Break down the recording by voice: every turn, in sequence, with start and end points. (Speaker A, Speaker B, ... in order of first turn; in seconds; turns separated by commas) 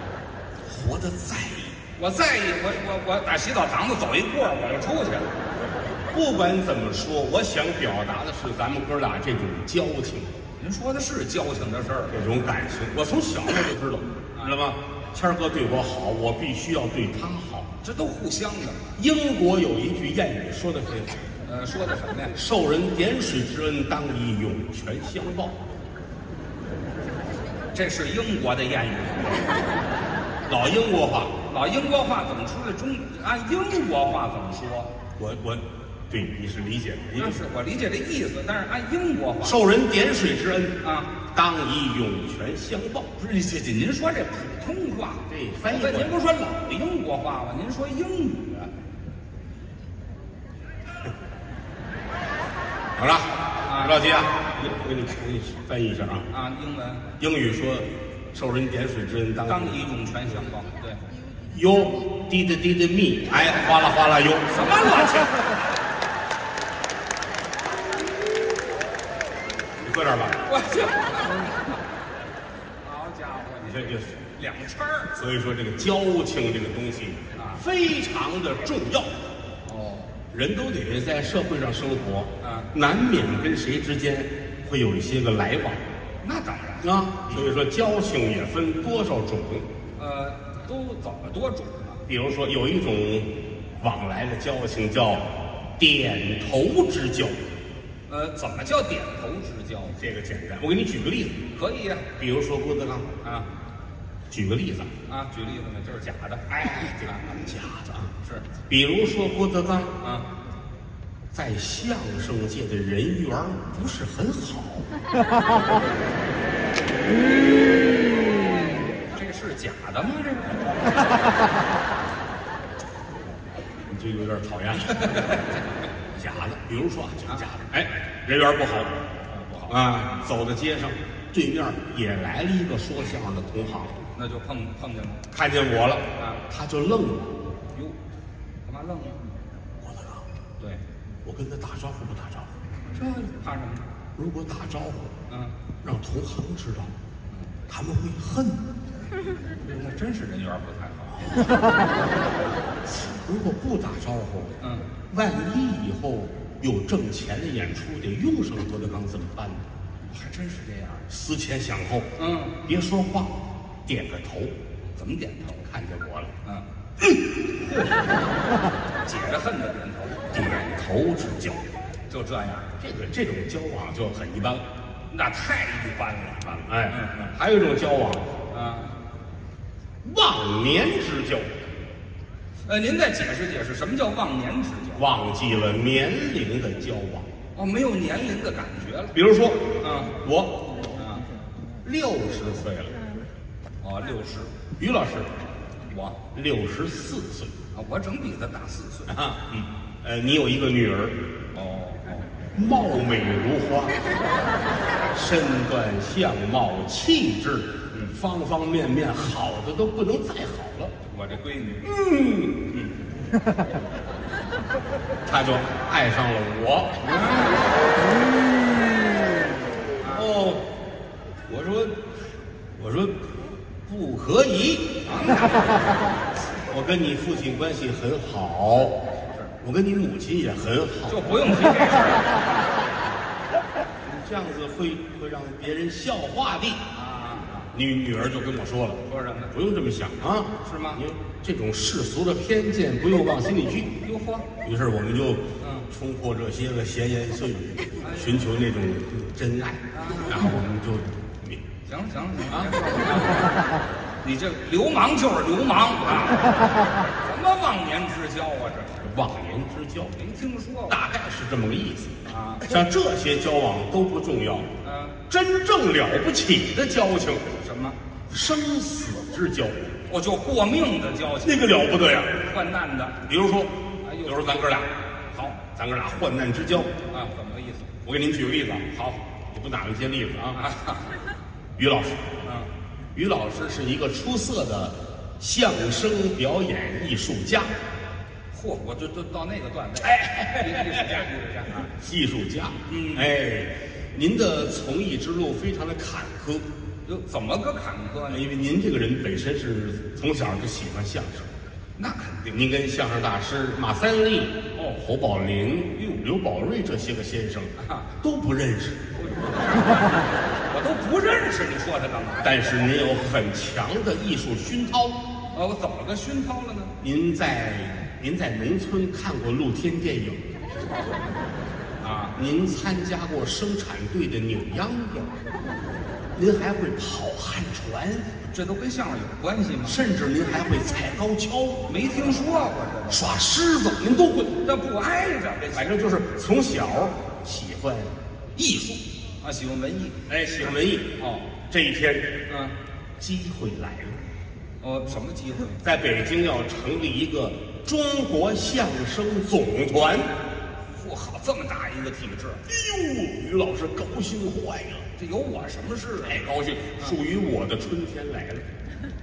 Speaker A: 0.7-1.8, Speaker B: 2.0-5.3, Speaker A: 6.1-10.3, Speaker B: 10.6-12.2, Speaker A: 12.1-17.7, Speaker B: 17.8-19.0, Speaker A: 19.0-21.2, Speaker B: 21.4-22.4, Speaker A: 22.3-25.6, Speaker B: 27.7-29.6, Speaker A: 30.5-31.3, Speaker B: 31.4-34.9, Speaker A: 35.2-37.4, Speaker B: 37.2-39.6, Speaker A: 39.4-43.1, Speaker B: 40.8-41.1, Speaker B: 43.2-48.7, Speaker A: 45.3-46.2, Speaker A: 53.0-56.3, Speaker B: 53.6-54.0, Speaker B: 56.3-57.1, Speaker A: 57.2-59.8, Speaker B: 59.4-61.0, Speaker A: 61.4-64.5, Speaker B: 64.5-65.7, Speaker A: 69.8-70.4, Speaker B: 70.4-71.8, Speaker B: 72.8-75.1, Speaker A: 73.7-74.2, Speaker A: 75.1-79.2, Speaker B: 77.3-77.6, Speaker B: 79.7-80.1, Speaker A: 80.3-85.8, Speaker B: 82.4-82.7, Speaker B: 86.2-87.5, Speaker A: 86.8-89.7, Speaker B: 90.0-92.0, Speaker A: 92.1-97.4, Speaker B: 98.1-100.0, Speaker A: 100.0-101.4, Speaker B: 101.5-102.1, Speaker A: 102.2-103.1, Speaker B: 103.2-103.5, Speaker A: 104.3-104.9, Speaker B: 105.1-107.4, Speaker A: 106.5-108.1, Speaker A: 108.7-110.0, Speaker B: 110.0-110.3, Speaker A: 111.3-114.9, Speaker B: 118.1-120.8, Speaker A: 123.9-125.5, Speaker B: 124.9-125.6, Speaker A: 126.1-129.0, Speaker B: 129.3-129.8, Speaker A: 129.7-133.9, Speaker B: 134.1-135.2, Speaker A: 135.3-137.4, Speaker B: 136.2-136.4, Speaker B: 138.7-139.3, Speaker A: 139.8-140.2, Speaker A: 141.2-142.5, Speaker B: 142.9-143.9, Speaker A: 144.1-145.1, Speaker B: 145.3-145.5, Speaker A: 145.8-146.9, Speaker A: 147.7-148.7, Speaker B: 149.5-151.5, Speaker A: 152.8-154.6, Speaker B: 154.6-154.9, Speaker A: 155.1-159.7, Speaker B: 160.1-161.1, Speaker A: 161.1-162.1, Speaker B: 162.2-162.6, Speaker A: 162.6-164.5, Speaker B: 165.0-165.7, Speaker A: 165.7-166.3, Speaker B: 167.6-168.2, Speaker B: 169.0-170.3, Speaker A: 170.3-171.7, Speaker B: 172.1-172.7, Speaker A: 172.8-174.7, Speaker B: 175.1-177.3, Speaker A: 176.7-178.3, Speaker B: 178.5-178.9, Speaker A: 180.0-181.5, Speaker B: 182.7-185.1, Speaker A: 184.9-187.3, Speaker B: 187.5-189.1, Speaker A: 189.1-190.8, Speaker B: 189.8-190.1, Speaker B: 190.9-191.3, Speaker A: 191.8-193.1, Speaker B: 193.8-194.5, Speaker A: 194.8-195.3, Speaker B: 195.9-196.2, Speaker A: 196.3-197.5, Speaker B: 197.7-199.7, Speaker A: 199.1-201.2, Speaker B: 201.5-202.3, Speaker A: 202.5-204.1, Speaker A: 205.1-210.9, Speaker B: 211.1-211.9, Speaker A: 211.8-212.7, Speaker A: 215.2-217.0, Speaker B: 217.0-217.9, Speaker B: 220.0-220.3, Speaker A: 220.1-220.6, Speaker A: 221.5-222.0, Speaker A: 222.8-223.3, Speaker A: 223.8-224.9, Speaker B: 225.1-225.9, Speaker A: 226.7-229.0, Speaker A: 229.6-231.3, Speaker B: 231.1-232.5, Speaker A: 234.0-236.8, Speaker B: 236.9-237.7, Speaker A: 237.7-243.9, Speaker B: 239.1-239.5, Speaker B: 240.6-241.0, Speaker B: 244.0-244.5, Speaker A: 244.6-251.6, Speaker B: 245.6-245.9, Speaker B: 248.0-248.4, Speaker B: 249.9-250.4, Speaker B: 251.9-253.6, Speaker B: 254.2-259.0, Speaker A: 259.0-260.1, Speaker B: 260.1-261.0, Speaker A: 260.9-264.7, Speaker B: 262.3-262.7, Speaker B: 264.8-265.2, Speaker A: 265.3-267.5, Speaker B: 267.6-268.0, Speaker A: 268.3-269.8, Speaker B: 270.1-271.6, Speaker A: 271.4-272.4, Speaker B: 272.4-273.2, Speaker A: 273.2-274.9, Speaker B: 274.0-274.5, Speaker B: 275.3-275.6, Speaker A: 275.6-276.9, Speaker B: 277.1-277.9, Speaker A: 278.0-280.6, Speaker B: 280.5-281.1, Speaker A: 281.8-282.3, Speaker B: 282.4-282.7, Speaker A: 283.1-287.7, Speaker B: 288.5-291.9, Speaker A: 290.0-291.2, Speaker A: 291.9-296.7, Speaker B: 292.9-293.3, Speaker B: 297.1-298.4, Speaker A: 298.3-301.5, Speaker B: 302.0-302.6, Speaker A: 302.5-309.0, Speaker B: 307.8-308.1, Speaker B: 309.2-312.6, Speaker A: 312.4-315.2, Speaker B: 315.5-316.9, Speaker A: 317.0-320.4, Speaker B: 322.0-322.3, Speaker A: 322.3-325.3, Speaker A: 326.3-328.3, Speaker B: 328.5-330.0, Speaker A: 329.8-331.9, Speaker B: 331.9-333.2, Speaker A: 333.1-334.6, Speaker B: 334.6-335.9, Speaker A: 335.7-339.0, Speaker B: 339.4-340.2, Speaker A: 340.3-341.2, Speaker B: 341.2-341.5, Speaker A: 341.7-342.4, Speaker B: 342.5-342.7, Speaker A: 343.2-344.2, Speaker B: 344.8-345.8, Speaker A: 345.7-350.3, Speaker B: 350.9-352.6, Speaker A: 352.7-355.1, Speaker B: 355.2-356.4, Speaker A: 356.2-358.6